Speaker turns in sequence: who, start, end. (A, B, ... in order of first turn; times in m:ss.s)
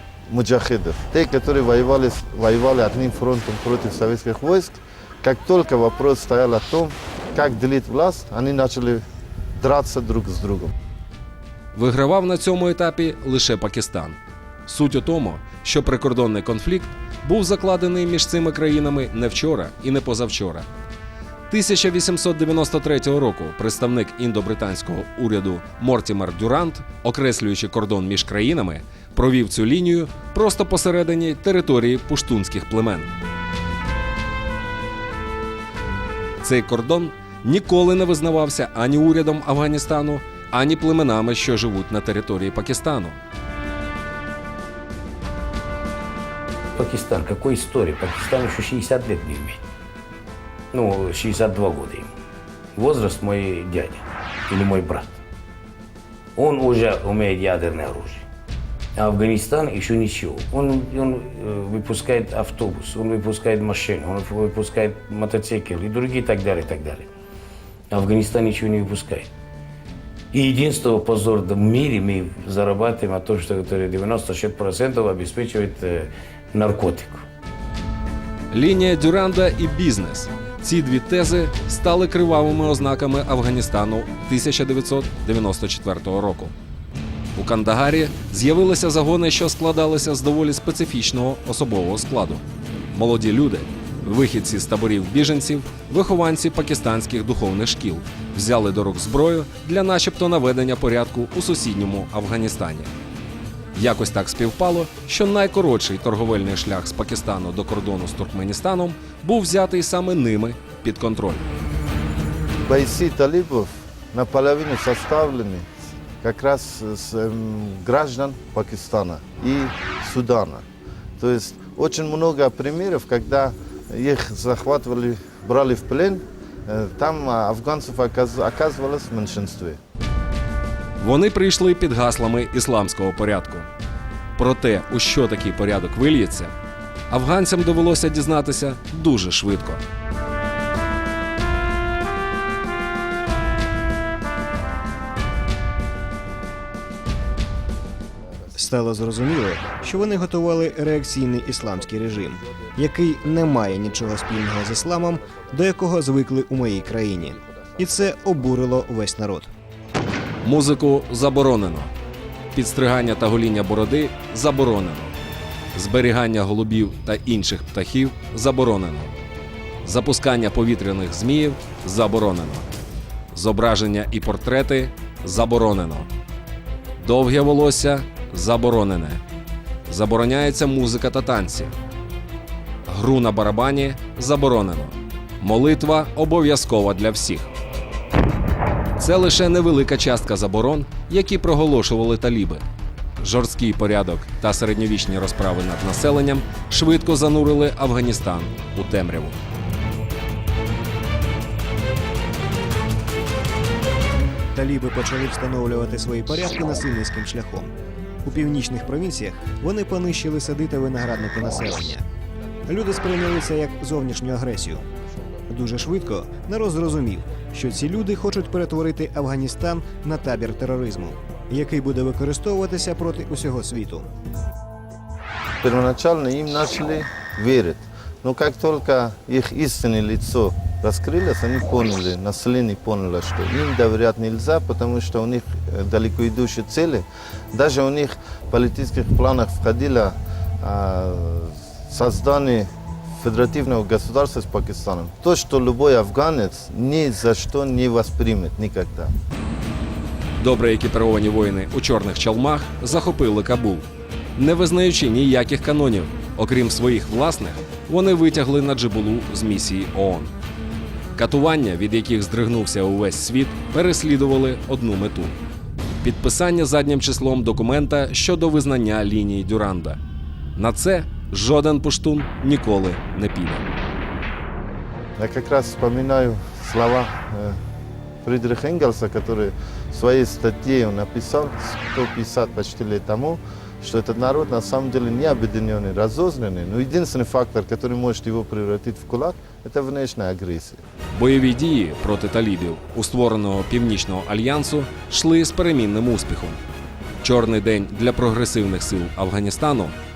0:00.3-0:09.0 A
0:09.6-0:10.7 A
0:11.7-0:20.7 B
0:21.5-0:33.1 B
0:36.4-0:43.2 B
0:46.7-0:49.7 C
0:50.7-0:52.1 C
0:52.7-0:55.2 C
0:56.4-0:58.3 C
0:58.9-1:07.1 C
1:07.9-1:09.3 C
1:10.3-1:17.2 C
1:18.5-1:26.5 B
1:27.3-1:42.9 B
1:43.7-1:51.5 B
1:52.6-1:55.7 A
1:56.2-2:00.6 A
2:01.2-2:09.8 A
2:11.0-2:13.7 B
2:14.4-2:16.5 B
2:17.1-2:19.8 B
2:28.5-2:39.5 D
2:40.4-2:41.9 B
2:42.5-2:45.1 B
2:45.7-2:49.1 B
2:49.8-2:52.7 B
2:53.3-2:56.1 B
2:57.0-2:59.2 B
2:59.9-3:01.7 B
3:02.9-3:07.5 B
3:09.0-3:12.6 B
3:13.2-3:19.4 B
3:24.5-3:27.7 D
3:28.2-3:32.0 D
3:32.7-3:34.8 D
3:35.5-3:44.1 D
3:45.6-4:09.1 A
4:10.4-4:20.3 B
4:21.2-4:25.4 B
4:26.0-4:30.0 B
4:30.6-4:33.6 B
4:35.2-4:37.6 A
4:38.2-4:50.8 A
4:51.1-4:56.6 B
4:57.2-5:00.0 B